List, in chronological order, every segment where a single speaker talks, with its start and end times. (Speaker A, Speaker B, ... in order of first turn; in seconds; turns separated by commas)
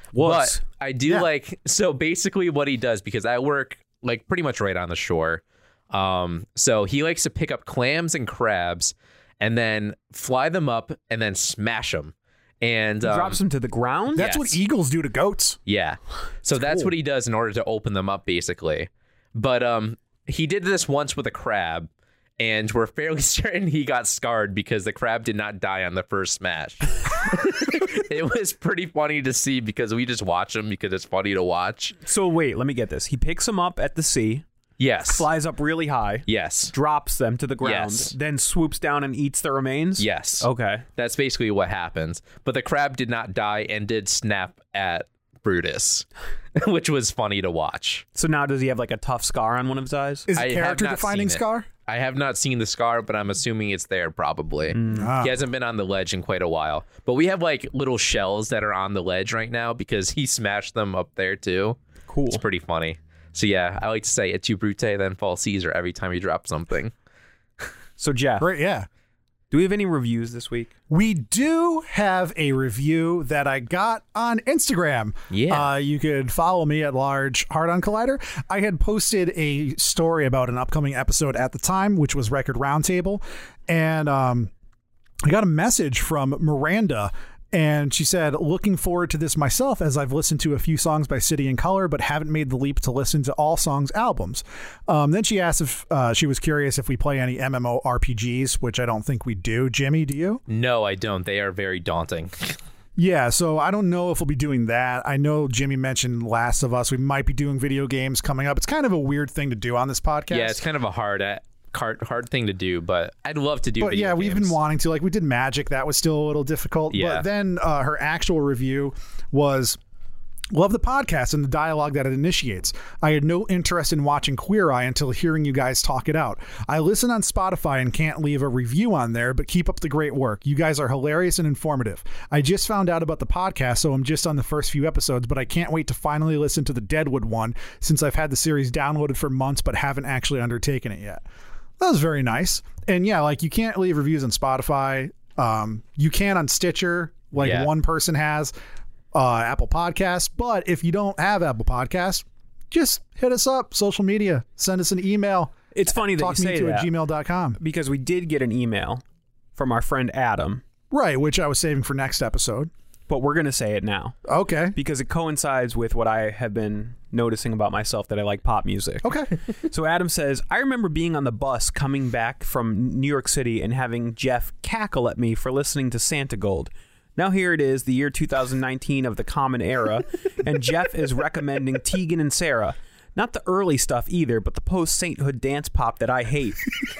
Speaker A: 0.1-0.6, Speaker B: 0.2-13.4, Speaker A: 13.0-14.3, Speaker C: 14.1-15.6, Speaker B: 14.2-14.6, Speaker B: 15.7-32.0, Speaker C: 16.5-16.9, Speaker A: 32.0-34.5, Speaker B: 34.8-35.3, Speaker A: 35.1-40.9, Speaker B: 36.3-36.7, Speaker B: 37.6-38.1, Speaker B: 40.0-48.0, Speaker A: 48.1-50.3, Speaker C: 50.3-51.7, Speaker B: 50.4-61.8, Speaker A: 54.7-55.1, Speaker C: 54.9-55.4, Speaker A: 62.1-62.4, Speaker B: 62.3-66.9, Speaker A: 68.0-68.5, Speaker C: 68.4-68.9, Speaker A: 69.5-70.7, Speaker C: 70.9-84.5, Speaker B: 75.3-75.7, Speaker C: 85.2-100.4, Speaker B: 100.5-102.6, Speaker C: 103.0-110.7, Speaker B: 110.3-114.5, Speaker C: 113.8-119.8, Speaker B: 116.9-117.3, Speaker C: 120.5-141.2, Speaker C: 141.8-148.5, Speaker B: 147.4-147.7, Speaker C: 149.1-157.6, Speaker A: 155.7-156.9, Speaker A: 157.6-159.0, Speaker A: 159.6-160.6, Speaker C: 160.9-162.7, Speaker A: 163.1-164.2, Speaker C: 164.2-164.8, Speaker A: 164.7-169.2, Speaker C: 169.0-169.3, Speaker A: 169.7-186.8